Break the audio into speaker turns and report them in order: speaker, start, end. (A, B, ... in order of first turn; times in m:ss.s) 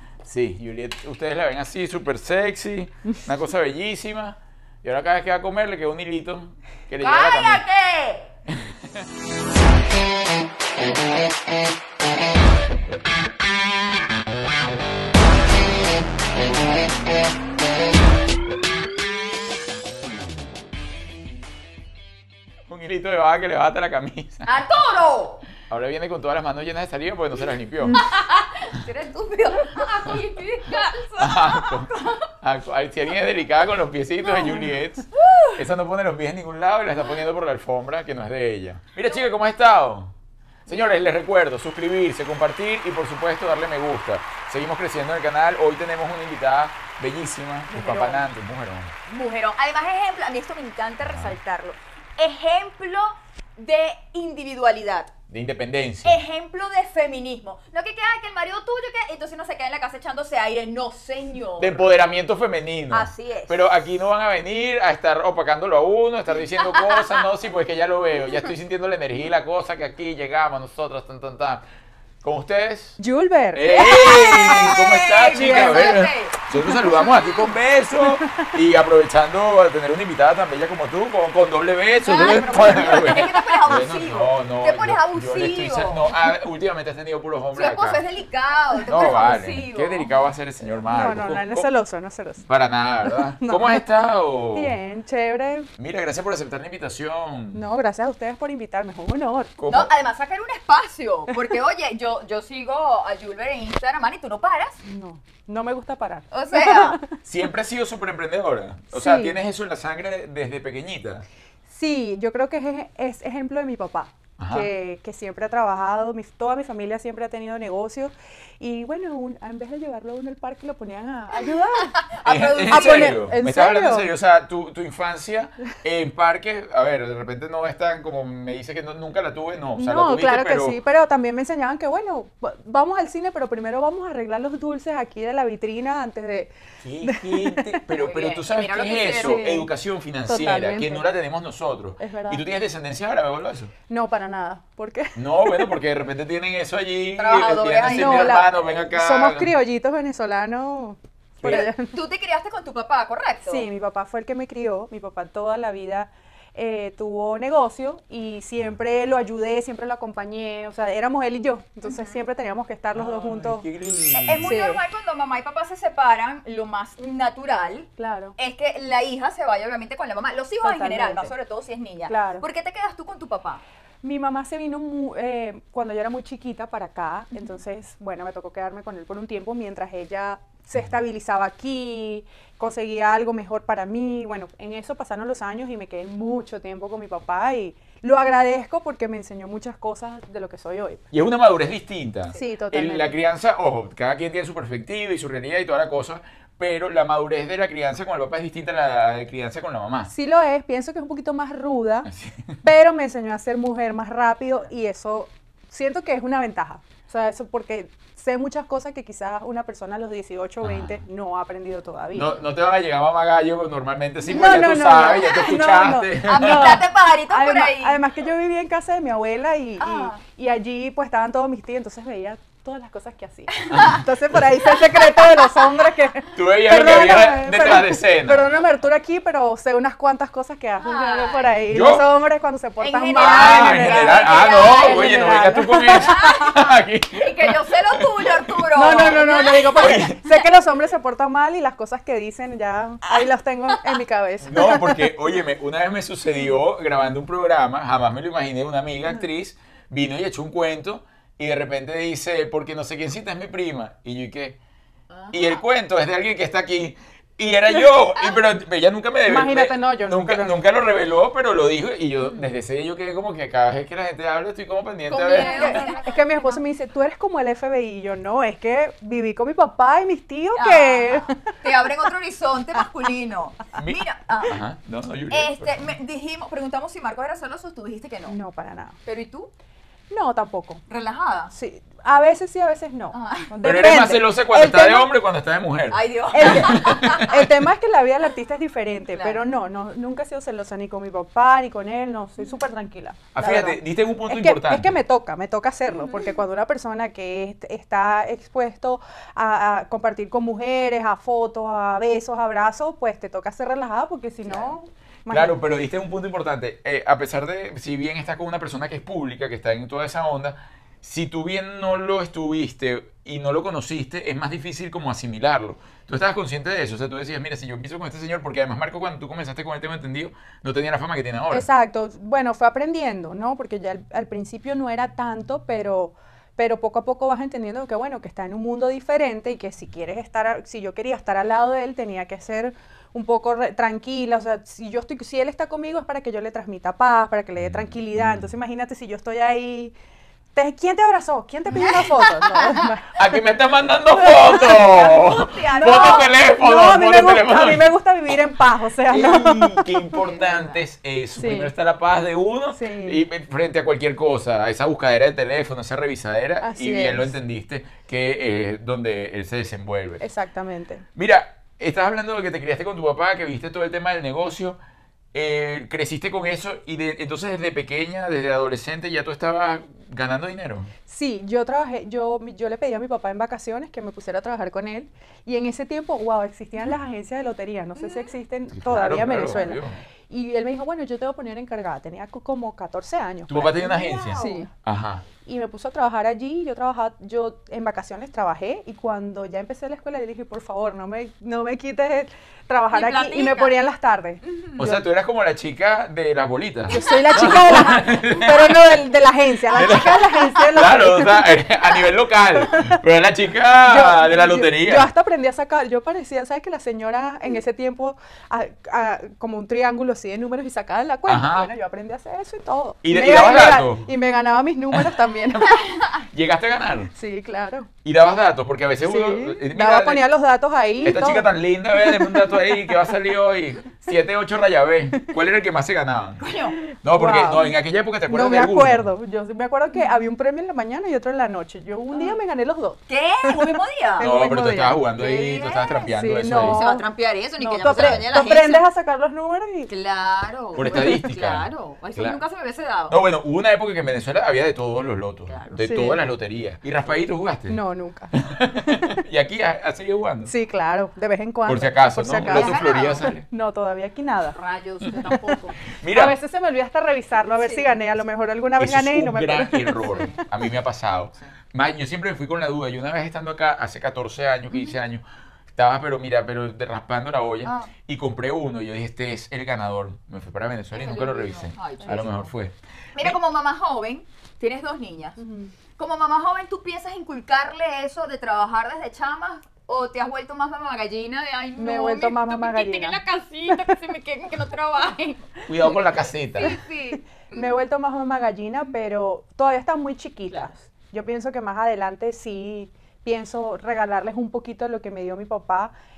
0:00.2-0:07.6 A
0:07.0-0:08.3 B
0:08.5-0:09.0 A
0:22.7-0:24.5 A
0:24.5-0:25.5 B
0:25.7-0:28.0 A
0:27.9-0:32.3 B
0:31.2-0:40.1 A
0:34.2-0:35.6 B
0:40.7-0:48.9 A
0:47.8-0:48.1 C
0:47.8-0:48.2 B
0:49.1-0:55.1 B
0:51.0-0:51.4 A
0:55.3-0:56.2 A
0:56.0-1:02.0 B
1:01.6-1:11.6 A
1:02.9-1:03.6 B
1:06.6-1:07.2 B
1:12.2-1:13.0 A
1:13.0-1:13.9 C
1:13.5-1:28.0 A
1:13.7-1:16.4 B
1:15.4-1:16.0 C
1:16.5-1:17.0 C
1:17.0-1:17.3 B
1:18.2-1:18.5 C
1:22.0-1:26.2 B
1:22.2-1:23.2 C
1:27.6-1:30.1 B
1:28.9-1:31.7 A
1:30.9-1:32.5 C
1:32.5-1:34.8 A
1:33.4-1:33.8 C
1:34.5-1:35.7 C
1:35.8-1:37.6 A
1:37.5-1:39.6 C
1:39.6-1:39.9 A
1:39.7-1:44.8 B
1:44.8-1:47.2 C
1:46.3-1:47.0 B
1:47.2-1:51.2 A
1:48.9-1:49.4 C
1:51.7-2:02.0 C
1:54.4-1:54.7 A
2:01.9-2:03.2 B
2:02.2-2:10.8 A
2:02.7-2:04.1 C
2:09.8-2:16.5 C
2:16.8-2:23.7 A
2:17.0-2:17.8 C
2:18.0-2:19.5 B
2:19.2-2:19.7 C
2:20.3-2:21.1 C
2:22.0-2:22.4 C
2:23.9-2:25.8 C
2:25.2-2:29.5 A
2:27.2-2:28.4 B
2:27.9-2:32.0 C
2:31.4-2:33.7 B
2:33.5-2:43.7 C
2:41.8-2:42.2 B
2:43.0-2:44.5 A
2:44.1-2:53.6 B
2:44.4-2:44.8 C
2:48.0-2:48.4 C
2:50.6-2:51.3 C
2:52.1-2:52.4 C
2:54.0-3:11.1 C
3:11.1-3:20.1 A
3:12.3-3:13.1 C
3:20.1-3:22.1 C
3:22.1-3:22.6 A
3:22.6-3:32.3 C
3:30.6-3:31.0 A
3:32.1-3:36.8 A
3:34.3-3:56.3 C
3:34.3-3:35.6 B
3:36.2-3:38.0 B
3:39.8-3:40.2 B
3:43.6-3:44.0 B
3:43.7-3:44.0 A
3:44.7-3:45.5 B
3:46.3-3:48.5 A
3:50.8-3:51.6 B
3:51.7-3:52.1 A
3:52.8-3:55.4 B
3:53.2-3:59.2 A
3:55.9-4:00.4 B
3:58.8-4:05.1 C
3:59.8-4:00.2 A
4:04.5-4:14.6 A
4:15.1-4:15.6 B
4:15.3-4:25.9 A
4:19.3-4:20.6 C
4:25.1-4:26.6 B
4:25.4-4:31.4 C
4:30.6-4:34.6 B
4:33.8-4:35.9 A
4:35.3-4:38.4 B
4:38.3-4:39.0 C
4:39.1-4:39.5 B
4:40.1-4:40.8 C
4:40.9-4:41.5 B
4:41.5-4:45.1 C
4:43.1-4:43.6 B
4:43.6-4:47.5 A
4:45.9-4:47.3 B
4:46.3-5:05.6 C
4:49.1-4:49.4 B
4:53.3-4:55.0 A
5:04.5-5:04.7 B
5:05.3-5:21.7 A
5:21.5-5:40.0 C
5:37.6-5:38.5 A
5:40.6-5:43.4 C
5:41.7-5:42.9 B
5:43.1-5:47.9 A
5:44.1-5:45.0 C
5:44.3-5:46.3 B
5:45.8-5:50.2 C
5:49.0-6:00.2 A
5:51.4-5:51.7 C
5:52.7-5:53.2 C
5:56.6-5:57.3 C
6:00.2-6:01.0 C
6:01.2-6:04.8 A
6:05.3-6:10.9 A
6:11.1-6:24.7 C
6:18.0-6:18.3 B
6:18.7-6:20.0 A
6:23.5-6:25.2 A
6:23.7-6:24.7 B
6:25.4-6:34.4 C
6:32.9-6:33.8 B
6:34.4-6:35.0 B
6:34.8-6:38.9 A
6:36.9-6:38.0 B
6:36.9-6:42.0 C
6:39.7-6:45.1 A
6:42.6-6:43.0 C
6:43.8-6:55.9 C
6:51.3-6:51.7 A
6:53.0-6:54.1 A
6:54.9-6:57.1 A
6:57.2-6:57.9 C
6:58.0-7:00.2 A
6:59.0-7:03.0 C
7:01.0-7:06.5 A
7:06.4-7:06.8 B
7:07.0-7:07.8 C
7:07.0-7:09.1 A
7:08.3-7:15.0 C
7:12.1-7:12.4 B
7:13.1-7:14.3 B
7:14.2-7:16.8 A
7:15.2-7:18.8 B
7:16.1-7:17.1 C
7:17.6-7:19.9 C
7:17.9-7:18.3 A
7:19.9-7:23.2 B
7:20.8-7:22.4 A
7:23.1-7:27.8 A
7:25.5-7:25.8 B
7:25.8-7:26.2 C
7:27.7-7:29.2 C
7:28.3-7:30.5 A
7:30.5-7:34.6 C
7:31.7-7:33.4 A
7:32.5-7:33.3 B
7:34.6-7:35.8 B
7:35.3-7:35.6 C
7:36.0-7:36.4 A
7:36.1-7:40.3 C
7:37.6-7:38.0 B
7:38.8-7:45.2 A
7:40.1-7:40.4 B
7:45.8-7:53.4 A
7:47.6-7:47.9 B
7:50.9-7:52.5 B
7:53.2-7:55.4 B
7:55.4-7:55.7 C
7:56.0-8:06.0 B
8:01.8-8:03.2 C
8:05.7-8:06.8 A
8:06.6-8:07.6 B
8:07.5-8:15.9 C